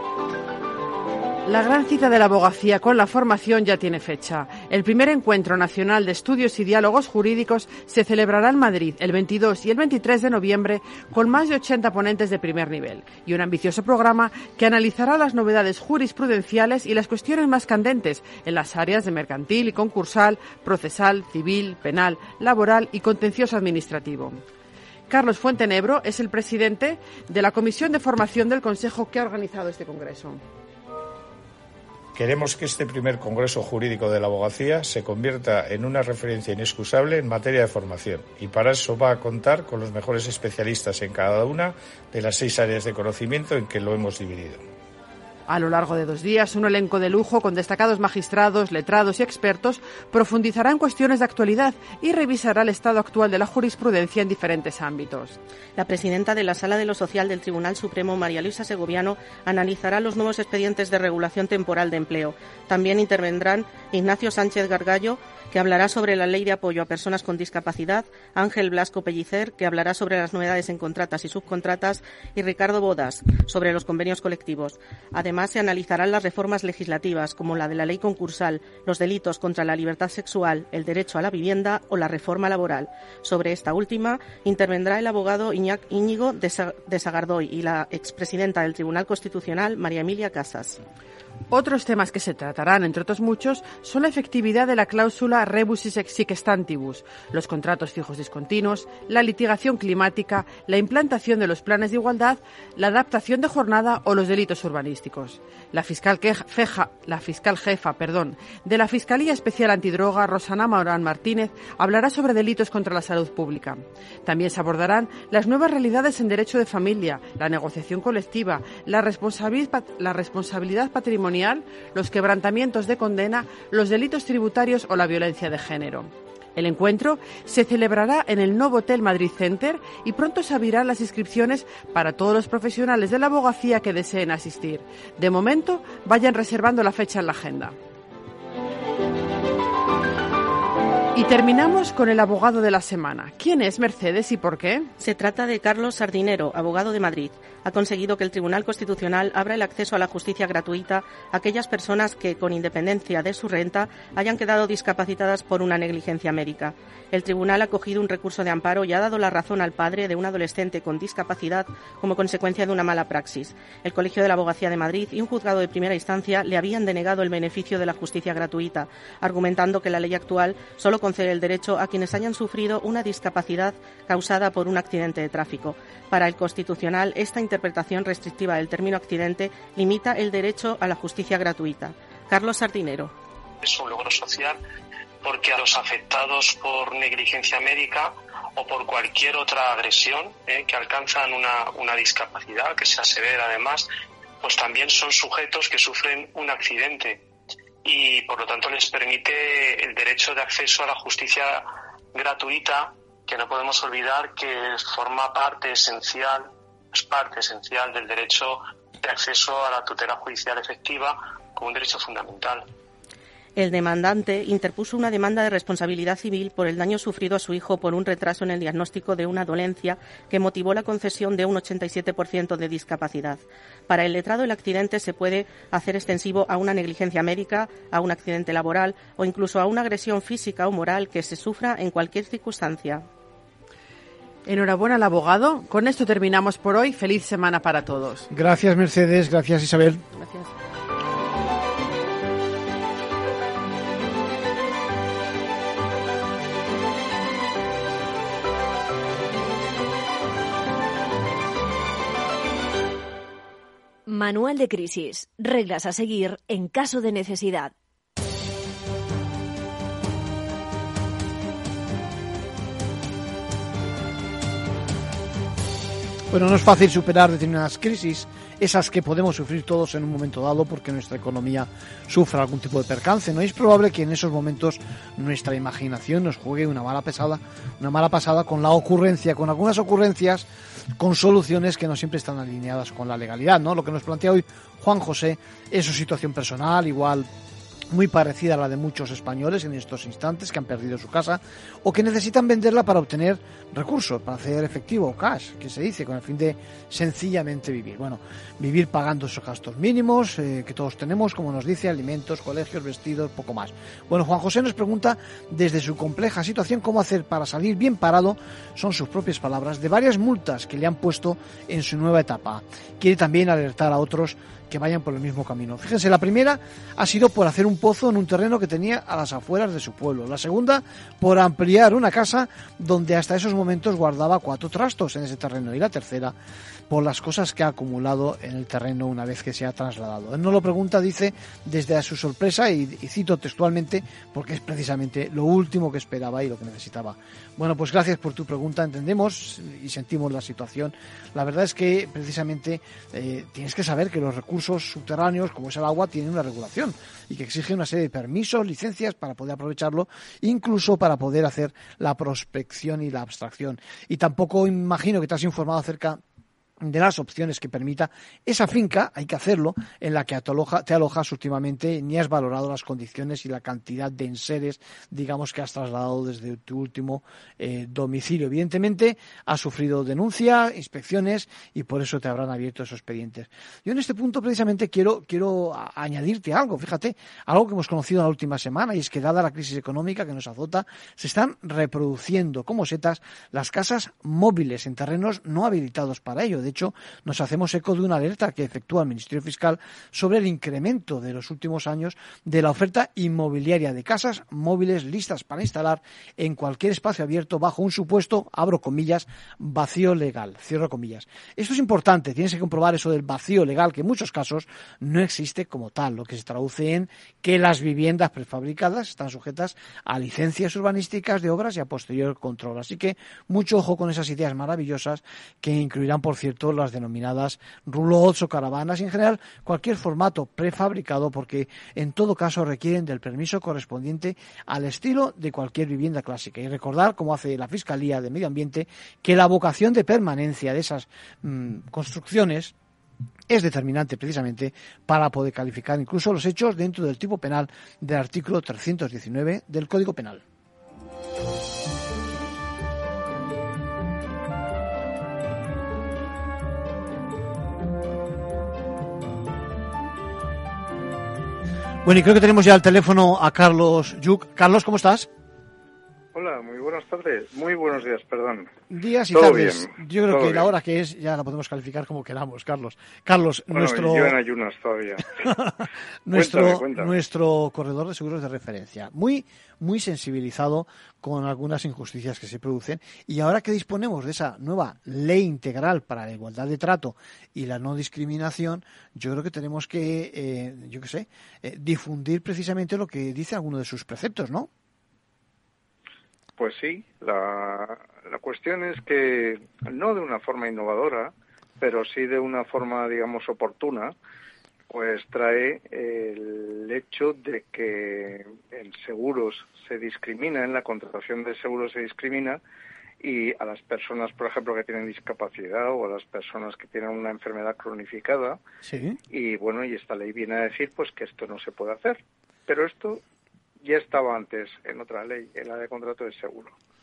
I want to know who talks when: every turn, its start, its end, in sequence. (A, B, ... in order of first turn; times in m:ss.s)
0:01.4-0:24.4 A
0:25.1-0:30.4 A
0:32.2-0:44.6 B
0:45.5-0:55.4 A
0:55.8-1:30.8 C
1:31.5-2:17.8 A
2:21.2-2:24.9 A
2:25.0-3:03.1 C
3:03.6-3:04.6 D
3:05.2-3:13.9 D
3:14.4-3:17.2 D
3:17.8-3:32.7 D
3:33.6-3:53.1 C
3:54.5-3:58.3 A
3:58.3-4:00.0 E
4:00.2-4:00.5 C
4:14.1-4:17.7 F
4:26.3-4:40.5 E
4:41.0-4:47.3 E
4:47.9-5:26.4 E
5:26.9-5:56.2 E
5:56.8-7:12.7 E
7:13.5-7:20.4 E
7:32.0-7:35.3 E
7:36.3-7:38.7 G
7:38.9-7:44.4 E
7:39.3-7:40.7 G
7:43.7-7:45.5 G
7:45.4-8:04.7 E
7:46.3-7:47.1 G
8:06.6-8:14.1 G
8:14.9-8:22.6 G
8:23.2-8:28.6 G
8:28.8-8:29.2 E
8:29.3-8:33.2 G
8:33.8-8:36.8 G